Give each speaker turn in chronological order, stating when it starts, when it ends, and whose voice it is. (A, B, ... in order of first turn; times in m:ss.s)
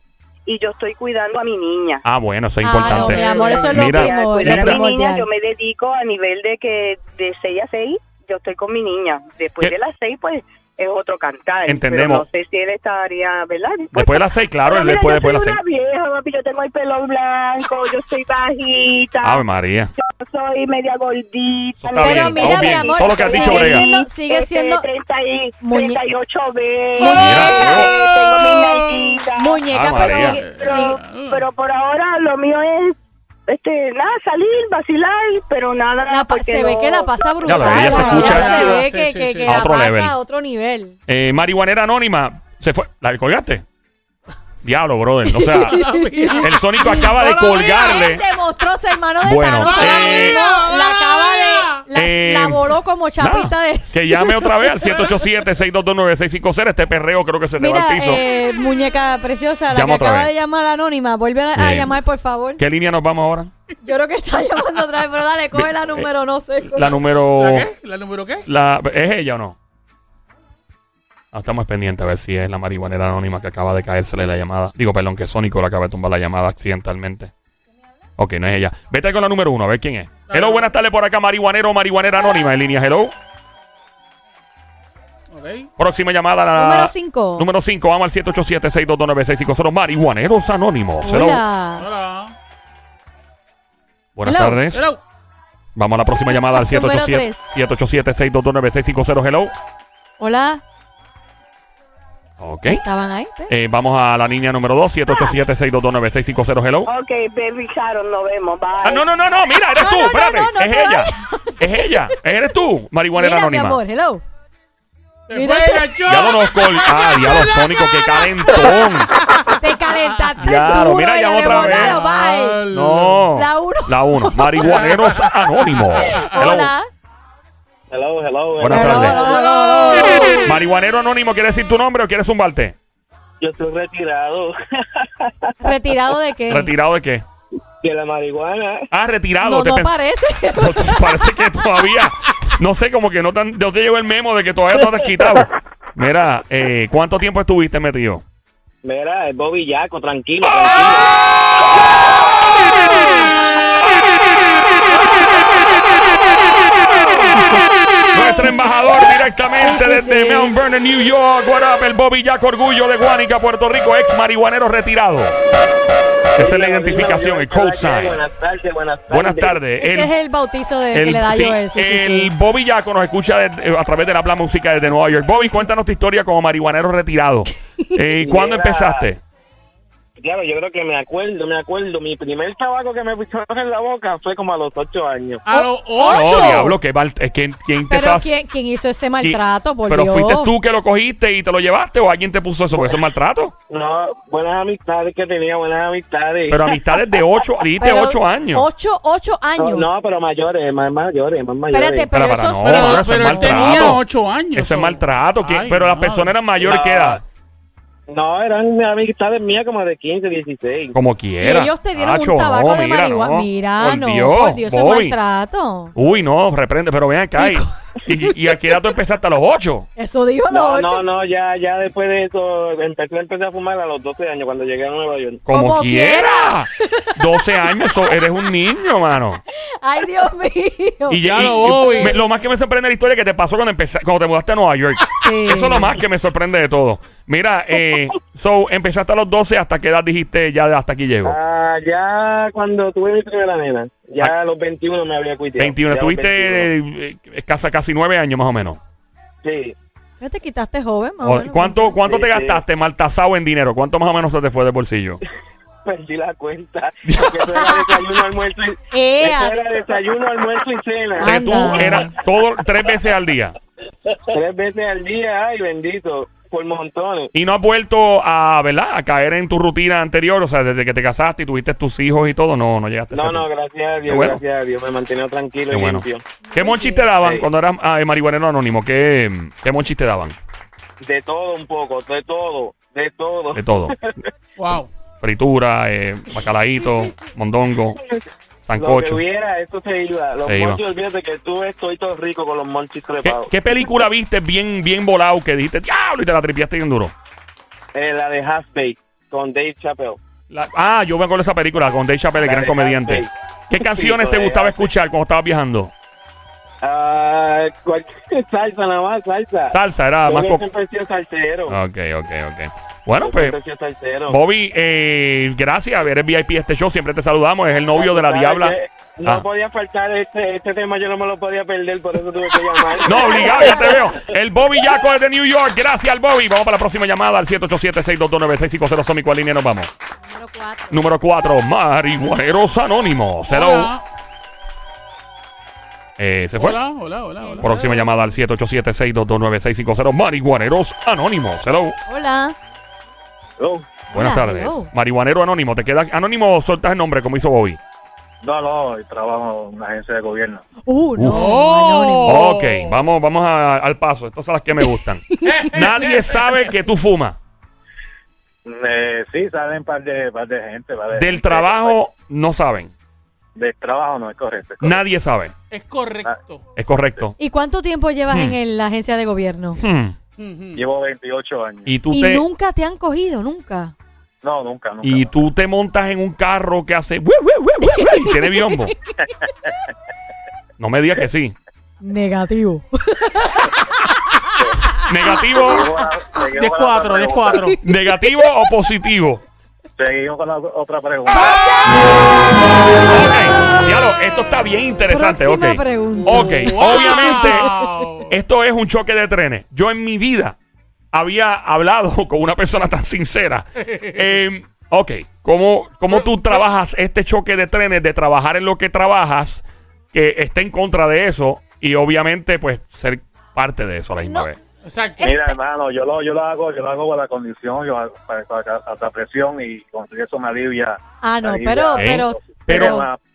0:00.5-0:02.0 A
0:02.0-0:04.8 B
0:02.6-0:05.3 C
0:02.9-0:19.4 A
0:03.2-0:03.6 D
0:11.7-0:12.2 B
0:13.9-0:15.6 B
0:19.2-0:19.9 B
0:20.0-0:38.8 A
0:21.8-0:23.8 B
0:22.0-0:24.9 C
0:25.6-0:26.0 C
0:27.0-0:28.1 C
0:27.1-0:27.9 B
0:28.5-0:28.8 D
0:29.4-0:31.0 C
0:29.7-0:30.4 B
0:30.4-0:31.4 D
0:36.1-0:41.0 C
0:37.4-0:38.8 B
0:37.6-0:39.7 D
0:39.5-0:40.2 B
0:41.1-0:43.6 B
0:44.6-0:45.8 B
0:45.3-0:54.5 C
0:45.4-0:48.0 D
0:46.4-0:48.2 B
0:49.2-0:50.4 B
0:49.6-0:51.9 D
0:51.9-0:58.2 B
0:54.8-0:55.3 D
0:57.6-1:02.6 C
0:59.7-1:00.3 B
1:01.6-1:02.0 B
1:02.6-1:03.5 B
1:03.8-1:07.0 C
1:05.6-1:06.1 B
1:06.8-1:07.7 B
1:07.3-1:08.5 D
1:08.5-1:09.6 B
1:11.3-1:17.3 B
1:18.2-1:23.1 B
1:20.3-1:20.7 D
1:25.3-1:25.7 D
1:25.8-1:31.4 B
1:26.5-1:27.5 C
1:31.0-1:31.9 C
1:31.8-1:32.4 D
1:34.2-1:34.9 B
1:34.2-1:34.6 C
1:34.7-1:35.0 D
1:35.8-1:39.5 B
1:36.3-1:37.4 C
1:40.2-1:40.6 C
1:42.4-1:42.8 B
1:42.8-1:43.5 C
1:43.5-1:46.9 B
1:45.1-1:45.3 A
1:46.9-1:49.1 A
1:48.8-1:53.8 B
1:49.8-1:51.7 C
1:53.2-1:54.2 C
1:55.3-2:03.3 D
1:55.3-1:56.0 C
1:56.1-1:59.1 B
1:59.6-2:02.6 C
2:00.4-2:02.0 B
2:02.7-2:06.7 B
2:03.3-2:04.9 C
2:04.6-2:06.5 D
2:05.9-2:06.9 C
2:07.9-2:09.5 E
2:08.6-2:09.2 B
2:08.7-2:10.5 C
2:09.4-2:10.5 D
2:10.4-2:12.8 B
2:13.4-2:15.5 E
2:15.6-2:16.7 C
2:16.5-2:17.3 B
2:17.8-2:18.9 E
2:18.9-2:19.9 B
2:19.4-2:21.4 C
2:20.6-2:28.2 B
2:28.8-2:31.2 E
2:38.1-2:45.4 B
2:39.6-2:40.5 C
2:46.4-2:48.2 B
2:46.4-2:49.6 E
2:49.1-2:50.1 B
2:49.8-2:52.3 C
2:50.9-2:59.2 B
2:58.2-2:59.1 E
3:00.2-3:05.4 E
3:05.4-3:06.7 D
3:05.5-3:06.8 C
3:06.0-3:08.3 B
3:07.9-3:10.5 C
3:09.2-3:13.5 B
3:13.7-3:16.7 E
3:16.5-3:18.7 B
3:17.8-3:19.9 C
3:19.6-3:22.1 E
3:21.7-3:24.0 C
3:22.1-3:27.2 B
3:22.6-3:26.4 D
3:26.6-3:27.2 E
3:28.1-3:31.0 E
3:30.9-3:35.2 B
3:31.4-3:35.9 C
3:36.0-3:39.9 B
3:37.4-3:37.7 C
3:40.0-3:41.0 C
3:40.5-3:45.4 E
3:45.5-3:49.4 B
3:45.5-3:47.2 C
3:49.8-3:51.2 C
3:51.1-4:01.4 B
3:51.2-3:52.2 D
3:51.9-3:52.2 C
3:55.2-3:55.9 C
4:01.2-4:06.7 E
4:05.6-4:08.8 B
4:09.4-4:09.8 E
4:10.2-4:12.0 C
4:11.2-4:15.2 B
4:12.0-4:12.6 E
4:15.8-4:22.1 E
4:17.1-4:17.4 B
4:18.9-4:19.6 C
4:21.2-4:22.2 C
4:21.2-4:23.6 B
4:24.3-4:27.3 E
4:27.3-4:33.5 B
4:33.1-4:36.2 E
4:34.1-4:34.4 B
4:35.7-4:40.4 B
4:36.4-4:37.1 C
4:37.2-4:37.5 E
4:41.0-4:44.3 E
4:43.6-4:44.0 B
4:44.6-4:44.9 D
4:45.2-4:48.0 B
4:48.7-4:49.2 B
4:48.8-4:53.5 E
4:50.4-4:50.8 B
4:53.2-4:57.1 B
4:58.0-5:00.2 E
5:00.5-5:05.9 B
5:02.4-5:04.9 E
5:06.8-5:11.8 E
5:09.7-5:10.6 B
5:11.7-5:13.6 B
5:13.2-5:14.4 E
5:14.3-5:19.4 B
5:17.9-5:23.9 E
5:23.0-5:29.9 B
5:30.3-5:31.1 C
5:30.9-5:33.9 B
5:33.5-5:34.0 D
5:36.2-5:36.8 B
5:36.6-5:38.2 D
5:37.4-5:38.1 C
5:37.6-5:42.0 B
5:42.1-5:42.6 C
5:43.6-5:43.9 F
5:44.1-5:47.8 B
5:44.1-5:44.9 C
5:48.4-5:50.6 F
5:50.8-5:52.5 C
5:51.2-5:51.5 B
5:51.3-5:52.9 D
5:52.3-5:57.4 B
5:55.4-5:55.7 C
5:55.4-5:56.7 D
5:58.6-6:02.0 F
6:01.1-6:02.9 B
6:03.6-6:05.0 F
6:04.8-6:05.6 B
6:05.7-6:06.7 D
6:06.8-6:07.4 B
6:07.4-6:09.8 C
6:08.3-6:08.6 B
6:09.8-6:10.2 B
6:10.4-6:10.8 D
6:10.8-6:11.9 F
6:11.9-6:12.4 B
6:12.1-6:13.9 C
6:14.4-6:15.3 F
6:15.0-6:19.0 B
6:17.9-6:18.6 C
6:20.8-6:21.6 B
6:22.0-6:23.8 C
6:25.1-6:25.9 B
6:25.6-6:27.7 F
6:26.5-6:27.8 D
6:27.8-6:29.4 B
6:30.0-6:31.5 F
6:31.3-6:32.2 C
6:31.3-6:31.7 D
6:33.1-6:37.7 B
6:35.1-6:38.1 C
6:36.2-6:38.3 D
6:38.3-6:40.6 B
6:41.1-6:54.6 B
6:46.1-6:46.6 D
6:54.2-6:54.5 C
6:54.8-6:55.3 D
6:55.2-6:55.6 C
6:55.2-7:03.2 F
7:01.2-7:03.1 C
7:02.0-7:03.0 B